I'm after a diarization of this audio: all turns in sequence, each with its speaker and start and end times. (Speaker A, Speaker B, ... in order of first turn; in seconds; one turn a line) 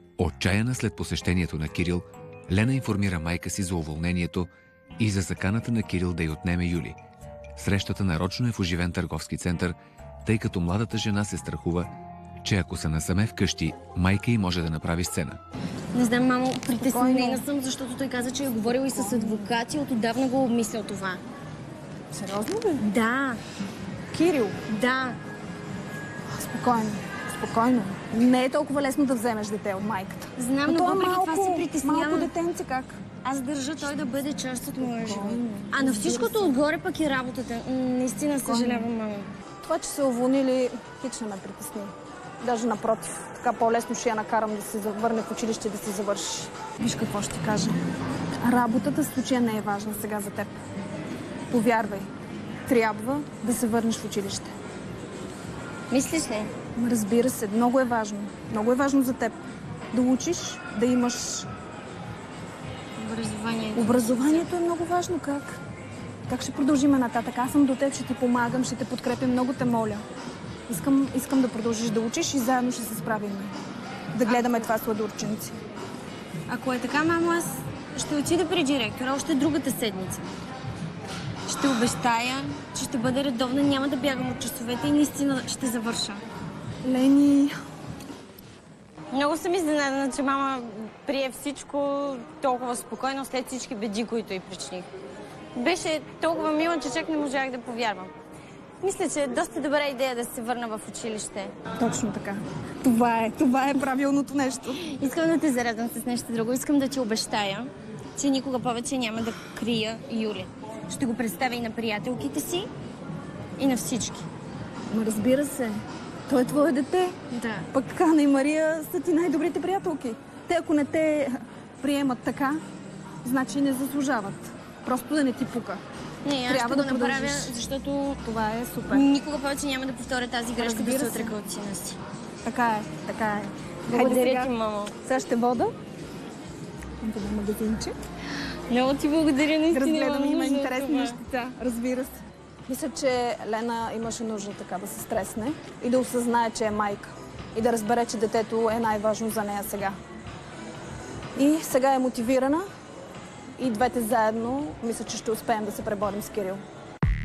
Speaker A: 0.2-7.0
Speaker A: 7.5-15.4
Speaker B: 15.9-21.2
Speaker C: 16.9-17.4
Speaker C: 18.7-19.4
Speaker C: 22.1-22.8
Speaker B: 22.8-23.4
Speaker C: 24.1-24.6
Speaker B: 24.7-25.2
Speaker C: 26.4-33.0
Speaker B: 30.4-32.3
Speaker B: 33.2-39.3
Speaker C: 34.8-36.5
Speaker C: 38.4-38.8
Speaker C: 39.6-47.8
Speaker C: 48.4-50.6
Speaker C: 51.5-52.1
Speaker C: 52.7-54.5
Speaker B: 55.9-56.5
Speaker C: 56.8-59.4
Speaker C: 59.9-61.5
Speaker B: 63.0-64.5
Speaker C: 63.8-65.6
Speaker C: 66.3-70.0
Speaker C: 70.7-73.5
Speaker C: 74.1-75.5
Speaker B: 74.2-74.7
Speaker B: 76.5-80.3
Speaker B: 81.5-86.2
Speaker C: 86.8-87.5
Speaker B: 89.1-94.9
Speaker B: 95.5-98.1
Speaker B: 98.8-101.5
Speaker C: 101.8-104.8
Speaker B: 104.8-112.7
Speaker B: 113.6-114.2
Speaker C: 114.9-115.7
Speaker C: 116.3-117.1
Speaker B: 117.3-117.7
Speaker C: 117.7-122.6
Speaker C: 123.2-125.8
Speaker B: 126.2-128.2
Speaker C: 126.5-127.5
Speaker C: 128.2-129.0
Speaker B: 128.9-132.0
Speaker C: 130.6-131.3
Speaker C: 132.4-134.5
Speaker B: 133.9-134.9
Speaker C: 135.0-135.7
Speaker C: 137.0-137.9
Speaker B: 138.7-141.2
Speaker C: 139.7-150.0
Speaker C: 151.3-152.6
Speaker C: 153.6-156.6